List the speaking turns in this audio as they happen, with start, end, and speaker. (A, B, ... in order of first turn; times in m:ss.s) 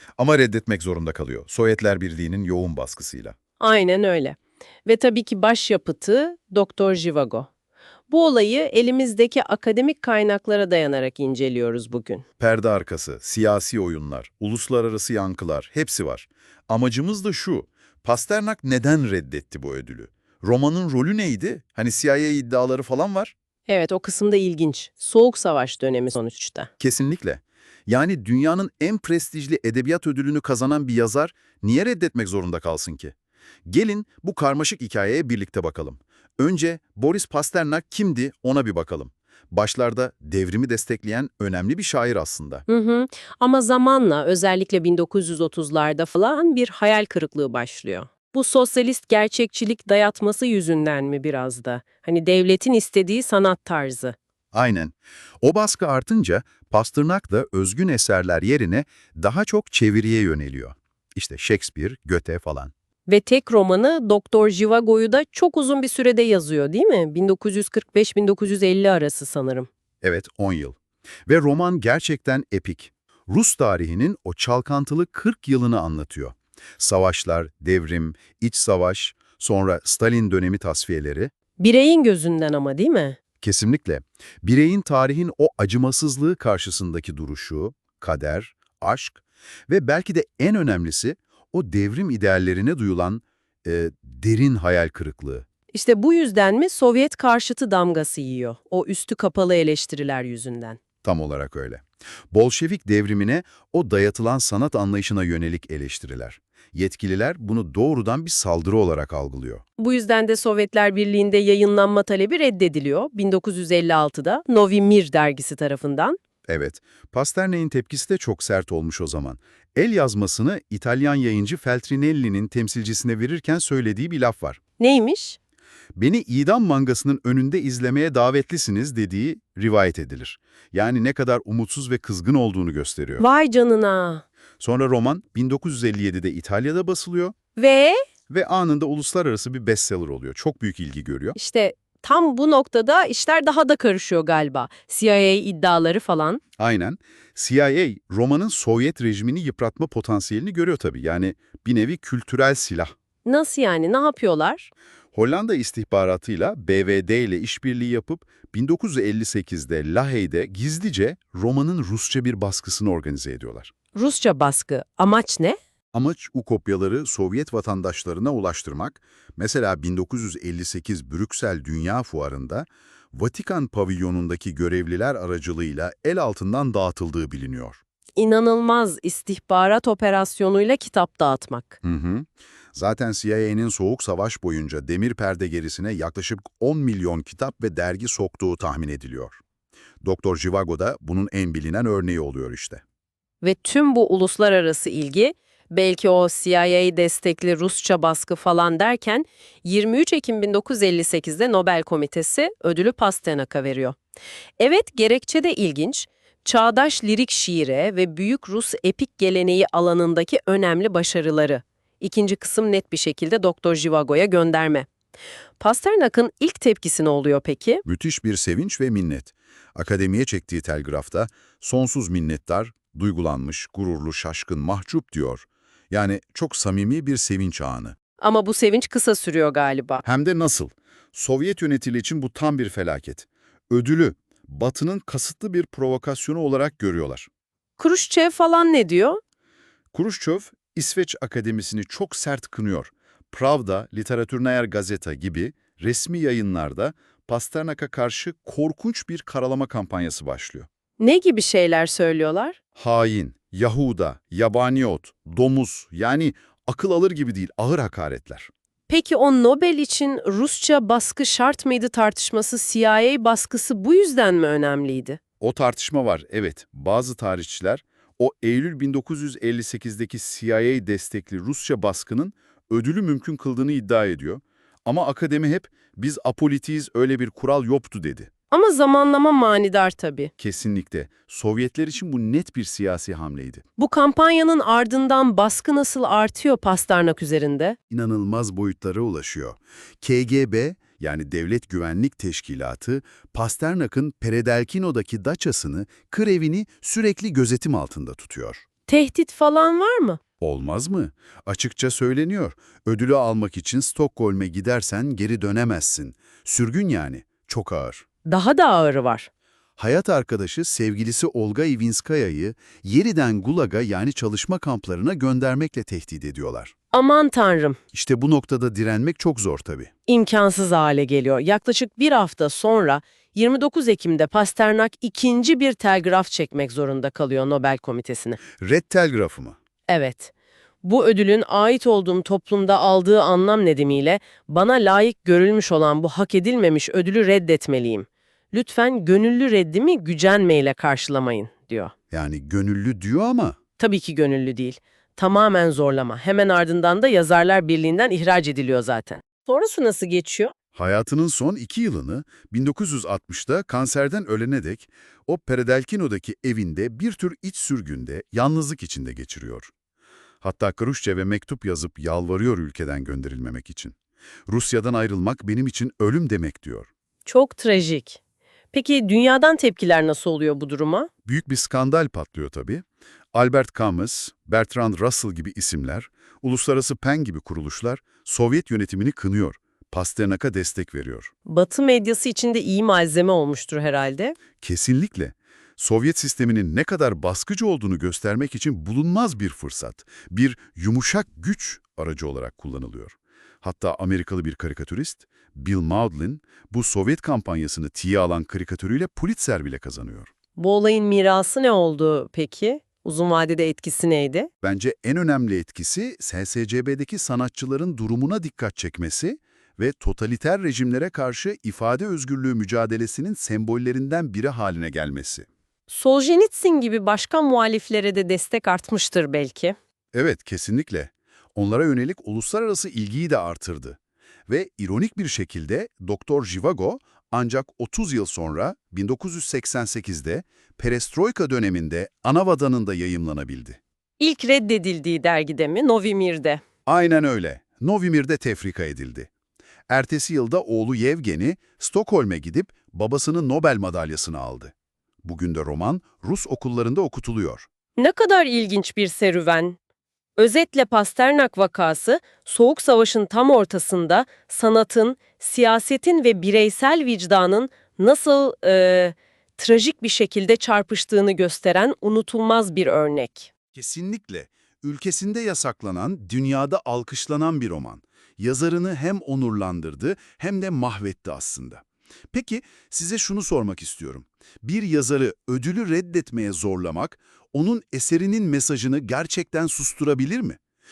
0:00.2-0:03.4 A
0:03.6-0:07.5 B
0:08.1-0:12.2 B
0:12.4-0:23.3 A
0:23.7-0:26.7 B
0:26.8-0:33.1 A
0:33.7-0:42.6 A
0:42.7-0:54.2 B
0:54.5-1:02.7 A
1:03.1-1:09.7 B
1:10.0-1:21.3 A
1:21.6-1:23.2 B
1:23.4-1:35.4 A
1:35.7-1:40.8 B
1:41.0-1:49.6 A
1:49.8-1:56.2 B
1:56.5-2:04.6 A
2:04.8-2:05.4 B
2:06.0-2:13.2 A
2:13.2-2:14.2 B
2:14.6-2:17.3 A
2:17.6-2:18.0 B
2:18.3-2:21.4 A
2:21.4-2:26.4 B
2:26.6-2:32.9 A
2:33.2-2:34.7 B
2:35.1-2:43.7 A
2:43.9-2:45.6 B
2:45.9-2:57.8 A
2:58.2-3:01.8 B
3:01.8-3:09.4 A
3:10.0-3:12.8 A
3:13.4-3:24.0 B
3:24.6-3:34.9 B
3:35.6-3:37.8 B
3:37.8-3:48.0 A
3:48.2-3:50.0 B
3:50.0-3:57.3 A
3:57.8-3:59.2 B
3:59.9-4:10.7 A
4:11.0-4:12.6 B
4:12.8-4:18.5 A
4:18.9-4:25.2 B
4:25.4-4:38.3 A
4:38.5-4:40.3 B
4:40.4-4:43.6 A
4:43.8-4:47.8 B
4:47.9-4:58.6 A
4:58.9-5:00.2 B
5:00.4-5:08.0 A
5:08.2-5:09.3 B
5:09.8-5:16.7 A
5:16.9-5:17.8 B
5:17.9-5:19.9 A
5:20.1-5:28.4 B
5:28.6-5:29.6 A
5:29.9-5:30.3 B
5:30.8-5:41.9 B
5:42.1-5:43.6 A
5:43.8-5:50.5 B
5:50.8-5:59.7 A
6:00.4-6:04.0 A
6:04.5-6:06.9 A
6:07.2-6:08.2 B
6:08.7-6:11.1 B
6:11.2-6:21.3 A
6:21.4-6:24.4 B
6:24.6-6:40.3 A
6:40.6-6:44.5 B
6:44.6-6:55.5 A
6:55.9-6:59.8 B
7:00.1-7:13.8 A
7:14.2-7:16.6 B
7:16.9-7:19.3 A
7:19.9-7:27.7 A
7:28.0-7:29.8 B
7:30.4-7:43.5 B
7:43.7-8:00.6 A